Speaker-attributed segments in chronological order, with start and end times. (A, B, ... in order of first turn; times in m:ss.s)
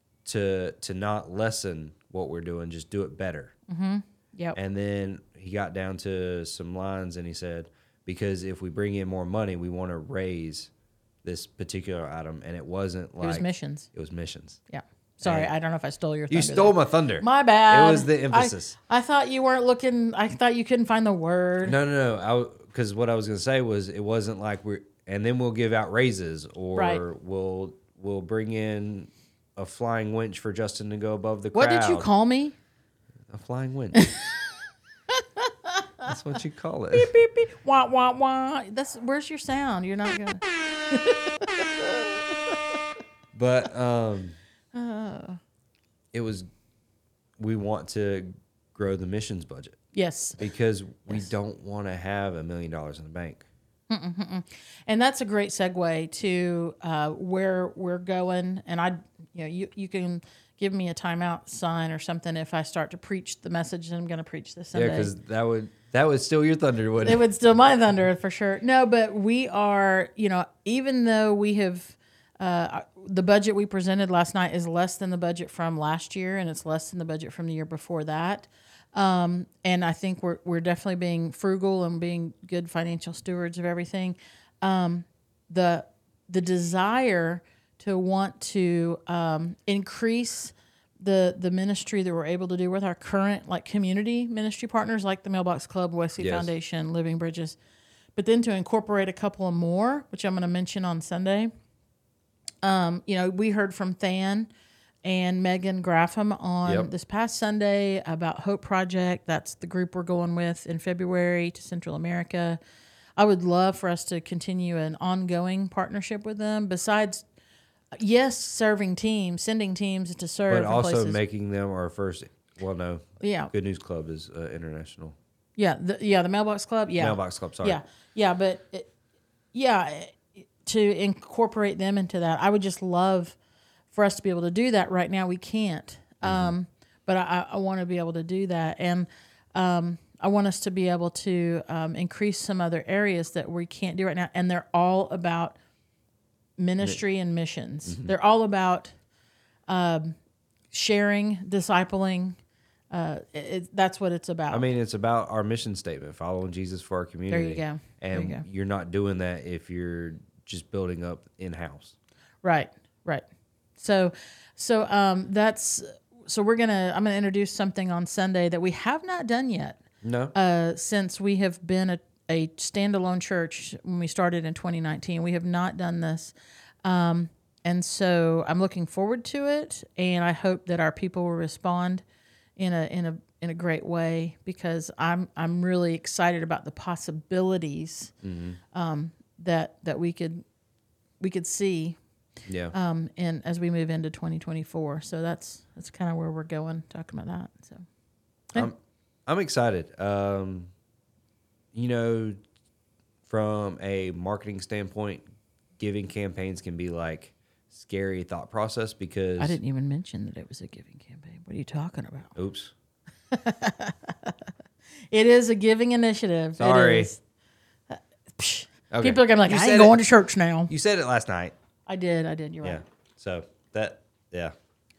0:00.2-0:03.5 A
0:03.7-0:04.6 B
0:04.5-0:10.7 A
0:11.2-0:14.6 A
0:13.2-0:13.9 B
0:14.7-0:21.8 B
0:15.2-0:15.5 A
0:16.3-0:18.8 A
0:21.6-0:32.1 A
0:26.7-0:27.0 B
0:31.5-0:32.5 B
0:33.3-0:34.0 A
0:33.9-0:34.5 B
0:35.1-0:36.1 B
0:36.0-0:37.1 A
0:36.9-0:42.6 B
0:43.3-0:44.4 A
0:44.7-0:45.4 B
0:46.1-0:46.5 A
0:47.4-0:49.8 A
0:49.9-0:50.4 B
0:50.4-0:53.4 A
0:53.9-1:05.1 B
1:04.7-1:07.2 A
1:07.0-1:37.6 B
1:36.2-1:36.5 A
1:38.2-1:41.5 B
1:42.6-1:44.5 B
1:45.0-1:52.6 B
1:46.6-1:46.9 A
1:53.2-1:57.2 B
1:58.0-2:01.2 B
2:00.5-2:05.2 A
2:03.2-2:03.5 B
2:05.6-2:08.9 B
2:07.0-2:07.8 A
2:09.5-2:13.4 B
2:13.9-2:25.6 B
2:16.2-2:16.5 A
2:26.6-2:28.9 B
2:27.9-2:28.1 A
2:29.7-2:30.2 B
2:30.7-2:32.4 B
2:32.9-2:34.7 B
2:34.5-2:41.9 A
2:37.3-2:38.4 B
2:42.4-2:43.2 B
2:43.8-2:49.8 B
2:50.0-2:50.3 A
2:50.3-3:02.0 B
3:02.6-3:08.1 B
3:08.2-3:08.6 A
3:08.7-3:10.4 B
3:11.2-3:12.0 B
3:12.5-3:12.7 A
3:12.7-3:17.8 B
3:18.5-3:20.7 A
3:21.7-3:22.4 A
3:23.3-3:25.2 A
3:25.8-3:29.6 A
3:29.4-3:32.3 B
3:32.3-3:32.7 A
3:33.3-3:34.4 B
3:35.1-3:37.2 B
3:36.6-3:37.1 A
3:37.9-3:40.7 B
3:38.9-3:40.0 A
3:40.7-3:41.5 A
3:41.9-3:42.8 B
3:42.6-3:44.5 A